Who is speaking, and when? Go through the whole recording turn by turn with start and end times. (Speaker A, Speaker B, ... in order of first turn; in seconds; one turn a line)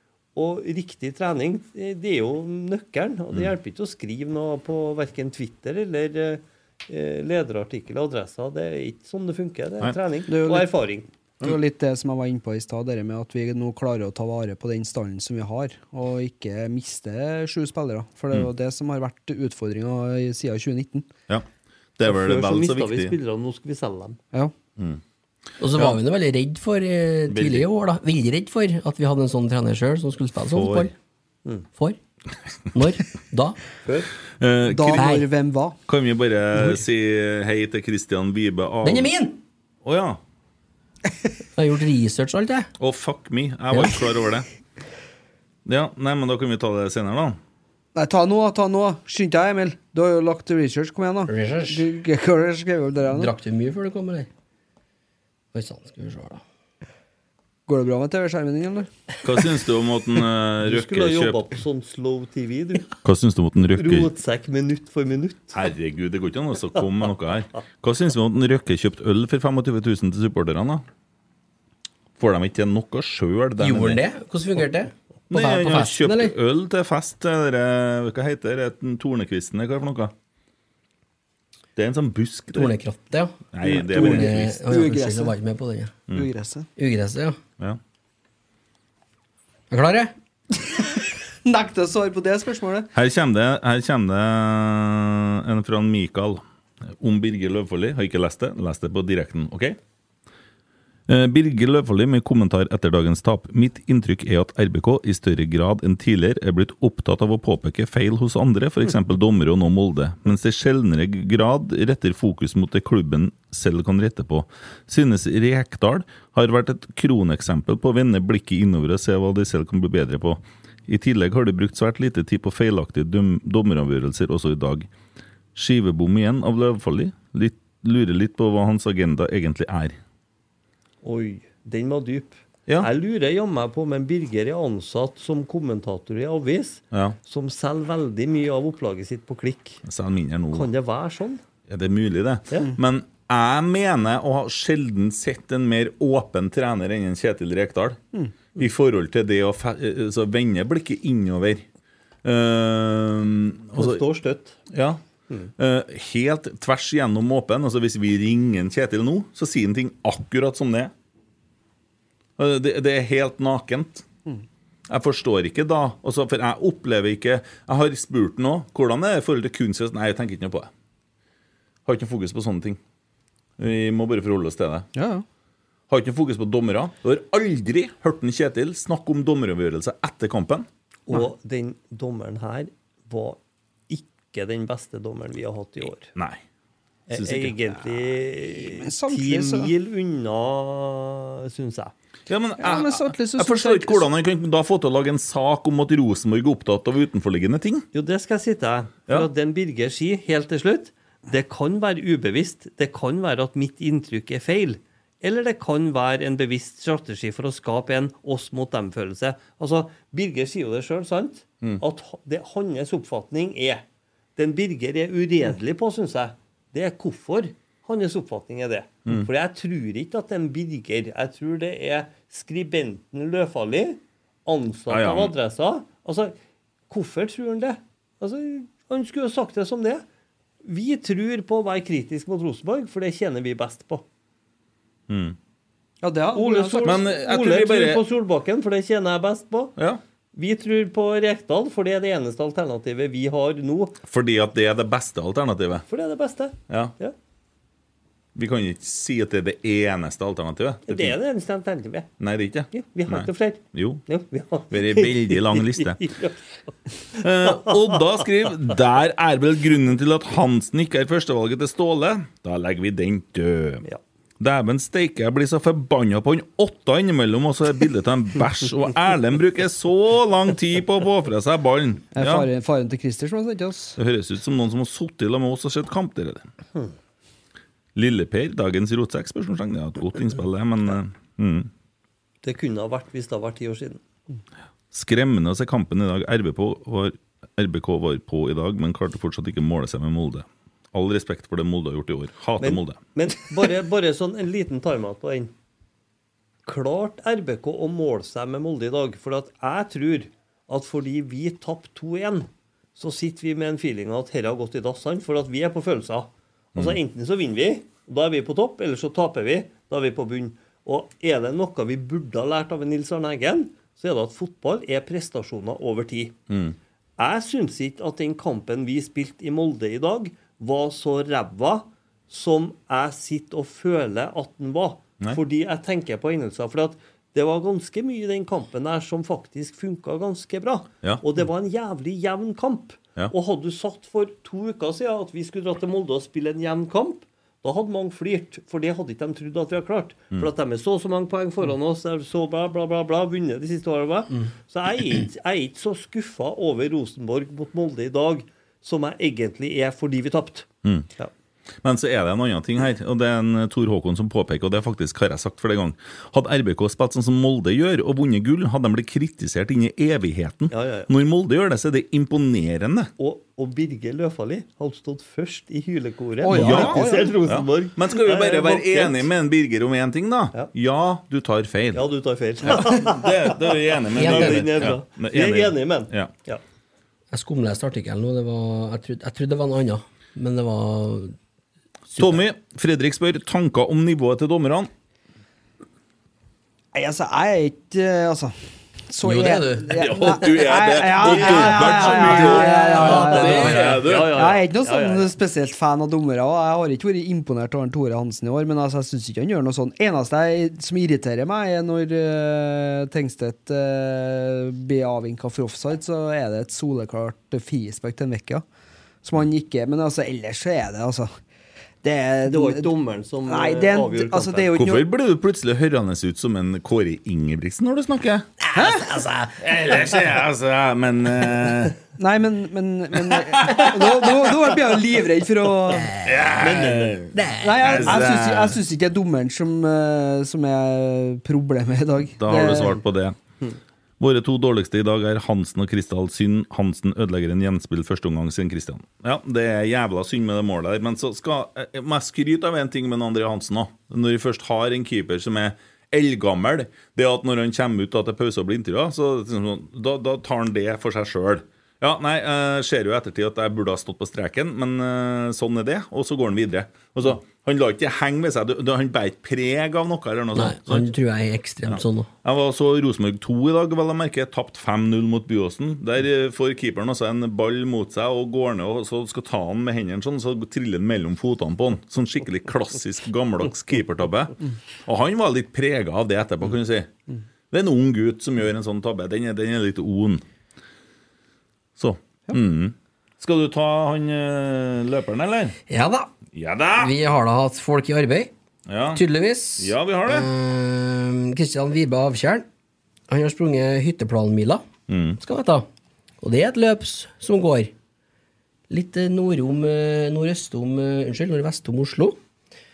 Speaker A: 0.3-11.1
Speaker B: 10.3-10.7
Speaker B: 11.4-21.1
Speaker C: 22.0-23.1
Speaker A: 22.1-24.2
Speaker D: 25.6-30.9
Speaker C: 27.3-27.7
Speaker C: 30.5-30.9
Speaker D: 32.7-33.6
Speaker C: 34.4-35.0
Speaker B: 34.7-35.8
Speaker D: 35.0-35.3
Speaker C: 35.9-39.1
Speaker D: 38.8-39.4
Speaker C: 39.8-40.2
Speaker D: 41.5-42.7
Speaker C: 42.8-44.5
Speaker D: 43.7-44.0
Speaker C: 45.6-47.4
Speaker B: 47.9-53.3
Speaker D: 51.3-51.9
Speaker D: 53.0-54.3
Speaker D: 55.5-56.4
Speaker B: 57.7-58.9
Speaker C: 59.2-61.4
Speaker A: 60.6-62.9
Speaker C: 63.0-64.1
Speaker A: 63.8-65.5
Speaker C: 65.5-70.8
Speaker C: 72.2-74.0
Speaker D: 73.6-76.3
Speaker C: 75.3-80.1
Speaker C: 81.8-82.7
Speaker D: 82.5-86.0
Speaker C: 83.5-84.6
Speaker B: 83.9-85.3
Speaker B: 86.1-86.7
Speaker D: 86.8-87.4
Speaker D: 89.7-90.1
Speaker B: 91.5-92.9
Speaker C: 92.9-96.4
Speaker C: 97.0-99.8
Speaker C: 101.1-124.9
Speaker C: 125.5-130.0
Speaker A: 131.0-139.8
Speaker C: 136.9-137.2
Speaker C: 139.8-140.7
Speaker A: 140.5-141.4
Speaker C: 141.7-148.0
Speaker C: 148.5-151.6
Speaker C: 152.2-154.0
Speaker A: 153.8-154.6
Speaker C: 154.7-155.0
Speaker C: 155.6-160.9
Speaker C: 162.4-164.0
Speaker C: 164.9-170.7
Speaker C: 171.8-172.8
Speaker C: 173.6-174.8
Speaker B: 174.9-175.2
Speaker C: 175.9-180.7
Speaker A: 181.1-183.4
Speaker A: 183.9-186.1
Speaker C: 186.2-186.4
Speaker C: 187.1-187.6
Speaker A: 187.1-191.9
Speaker B: 188.4-189.7
Speaker C: 192.3-197.8
Speaker B: 192.6-194.0
Speaker A: 197.9-213.8
Speaker A: 214.3-226.3
Speaker C: 224.9-225.3
Speaker A: 226.9-230.0
Speaker A: 230.6-234.0
Speaker C: 235.1-235.3
Speaker B: 236.0-237.0
Speaker A: 236.3-239.7
Speaker C: 236.8-238.0
Speaker A: 240.3-244.0
Speaker C: 244.1-245.8
Speaker A: 245.9-247.1
Speaker C: 246.7-246.9
Speaker C: 248.3-251.2
Speaker A: 250.9-252.1
Speaker C: 252.2-254.0
Speaker A: 252.7-256.4
Speaker C: 254.7-256.0
Speaker C: 257.2-263.8
Speaker C: 264.4-272.5
Speaker B: 272.1-274.0
Speaker C: 274.0-276.5
Speaker C: 277.9-281.7
Speaker A: 282.4-284.0
Speaker C: 284.9-293.0
Speaker A: 292.6-295.5
Speaker A: 296.6-316.3
Speaker C: 316.5-316.8
Speaker A: 317.2-351.3
Speaker C: 351.8-363.1
Speaker A: 360.7-361.1
Speaker A: 363.2-369.3
Speaker B: 366.4-367.4
Speaker C: 366.5-372.1
Speaker A: 371.9-376.6
Speaker C: 372.6-376.3
Speaker D: 374.1-374.9
Speaker D: 377.3-381.3
Speaker D: 382.1-382.4
Speaker C: 382.2-384.9
Speaker B: 386.9-408.6
Speaker D: 389.2-390.0
Speaker C: 389.9-394.4
Speaker D: 391.7-394.0
Speaker A: 391.7-395.3
Speaker B: 409.2-411.3
Speaker B: 412.0-412.9
Speaker A: 412.5-414.7
Speaker B: 413.4-415.0
Speaker C: 414.7-418.5
Speaker D: 418.6-419.9
Speaker B: 418.7-419.1
Speaker C: 419.6-422.0
Speaker B: 422.2-426.1
Speaker C: 423.2-424.3
Speaker D: 426.0-426.5
Speaker C: 426.2-428.8
Speaker A: 426.6-427.2
Speaker D: 427.3-428.3
Speaker B: 427.6-432.9
Speaker C: 432.4-433.4
Speaker C: 434.2-461.1
Speaker D: 460.5-462.3
Speaker C: 461.9-477.1
Speaker C: 477.7-480.4
Speaker C: 482.0-485.7
Speaker D: 485.9-486.4
Speaker C: 486.5-487.1
Speaker D: 487.0-488.5
Speaker C: 488.9-489.2
Speaker D: 489.1-492.6
Speaker C: 489.8-490.5
Speaker D: 493.3-494.8
Speaker C: 495.1-495.4
Speaker D: 495.4-495.9
Speaker D: 496.4-497.9
Speaker D: 498.9-502.4